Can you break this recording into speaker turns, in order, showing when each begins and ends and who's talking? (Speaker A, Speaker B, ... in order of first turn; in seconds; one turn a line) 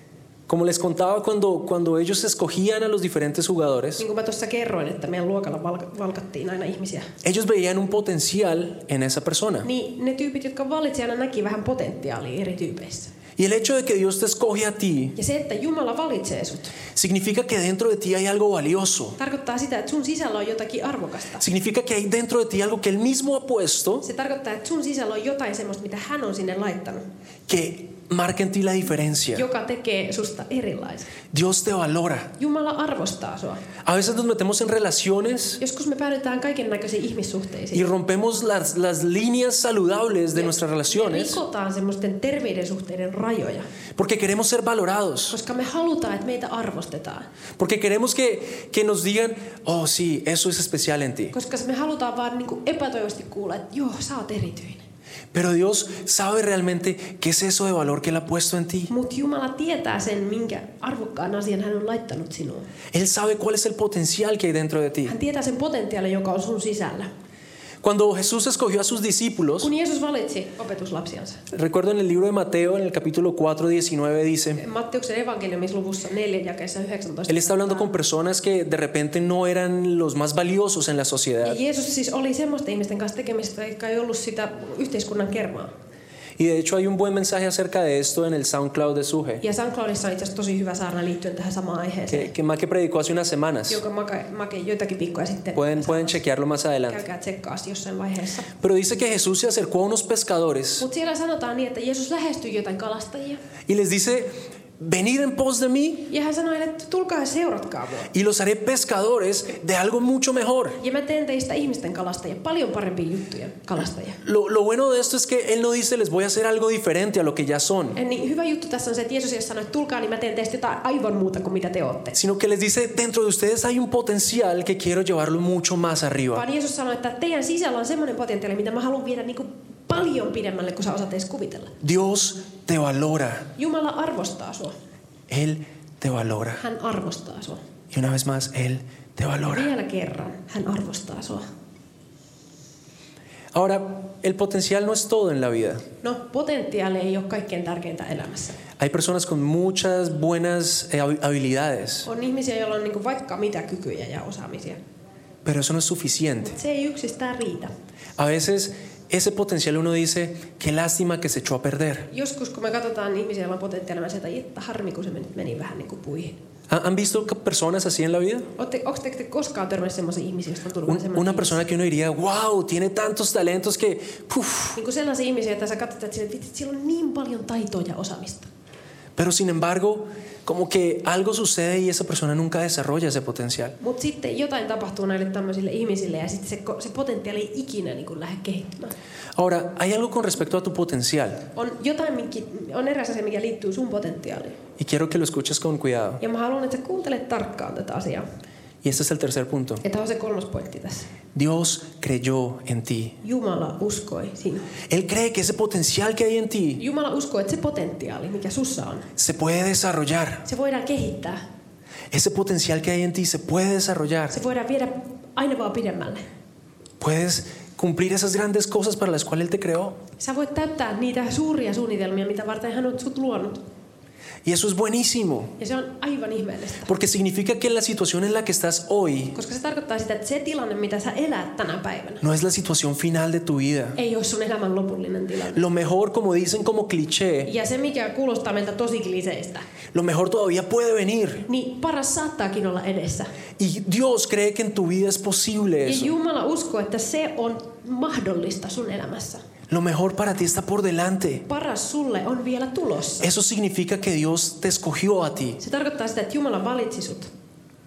Speaker A: 0.5-4.0
Speaker B: 4.0-7.1
Speaker A: 7.2-9.7
Speaker B: 9.6-13.1
Speaker A: 13.4-15.2
Speaker B: 15.2-16.8
Speaker A: 16.9-19.2
Speaker B: 19.2-21.4
Speaker A: 21.4-24.1
Speaker B: 24.0-27.0
Speaker A: 27.5-29.5
Speaker B: 29.3-31.1
Speaker A: 31.3-32.3
Speaker B: 32.4-33.6
Speaker A: 33.8-35.6
Speaker B: 35.6-37.9
Speaker A: 37.7-41.4
Speaker B: 40.3-43.7
Speaker A: 44.0-45.4
Speaker B: 45.3-47.3
Speaker A: 47.6-51.3
Speaker B: 51.3-54.9
Speaker A: 55.3-58.9
Speaker B: 58.9-62.7
Speaker A: 62.9-65.2
Speaker B: 65.1-67.1
Speaker A: 67.8-69.7
Speaker B: 69.6-71.4
Speaker A: 71.5-74.6
Speaker B: 74.6-77.9
Speaker A: 77.3-81.6
Speaker B: 81.4-85.7
Speaker A: 86.4-89.4
Speaker B: 89.4-92.3
Speaker A: 92.1-93.8
Speaker B: 93.7-96.2
Speaker A: 95.5-97.0
Speaker B: 96.9-98.5
Speaker A: 98.6-100.9
Speaker B: 100.8-103.4
Speaker A: 103.7-106.1
Speaker B: 106.1-108.1
Speaker A: 108.1-110.8
Speaker B: 110.8-114.2
Speaker A: 114.2-118.0
Speaker B: 118.0-122.2
Speaker A: 122.2-126.5
Speaker B: 126.3-131.8
Speaker A: 131.8-133.5
Speaker B: 133.6-134.8
Speaker A: 135.3-136.6
Speaker B: 136.6-137.6
Speaker A: 137.9-139.7
Speaker B: 139.5-141.5
Speaker A: 143.5-145.8
Speaker B: 146.0-148.6
Speaker A: 148.8-152.1
Speaker B: 152.1-154.8
Speaker A: 155.4-156.6
Speaker B: 156.4-157.7
Speaker A: 158.2-162.1
Speaker B: 162.1-166.4
Speaker A: 166.7-168.5
Speaker B: 168.6-171.6
Speaker A: 170.9-174.8
Speaker B: 174.8-178.5
Speaker A: 179.2-183.8
Speaker B: 183.8-188.9
Speaker A: 189.4-191.4
Speaker B: 191.6-194.6
Speaker A: 194.8-196.2
Speaker B: 196.2-198.3
Speaker A: 198.8-199.8
Speaker B: 199.8-201.1
Speaker A: 201.3-203.2
Speaker B: 203.2-204.7
Speaker A: 204.9-206.8
Speaker B: 206.8-209.1
Speaker A: 209.2-210.5
Speaker B: 210.4-211.4
Speaker A: 212.1-214.4
Speaker B: 214.3-216.2
Speaker A: 217.0-220.0
Speaker B: 220.2-223.6
Speaker A: 224.4-225.6
Speaker B: 225.6-226.9
Speaker A: 226.9-229.4
Speaker B: 229.3-232.2
Speaker A: 232.2-234.0
Speaker B: 234.0-235.7
Speaker A: 235.5-237.5
Speaker B: 237.4-239.7
Speaker A: 239.9-241.5
Speaker B: 241.5-243.3
Speaker A: 243.6-246.1
Speaker B: 245.8-249.4
Speaker A: 249.7-251.4
Speaker B: 251.5-253.3
Speaker A: 253.2-255.6
Speaker B: 255.6-257.3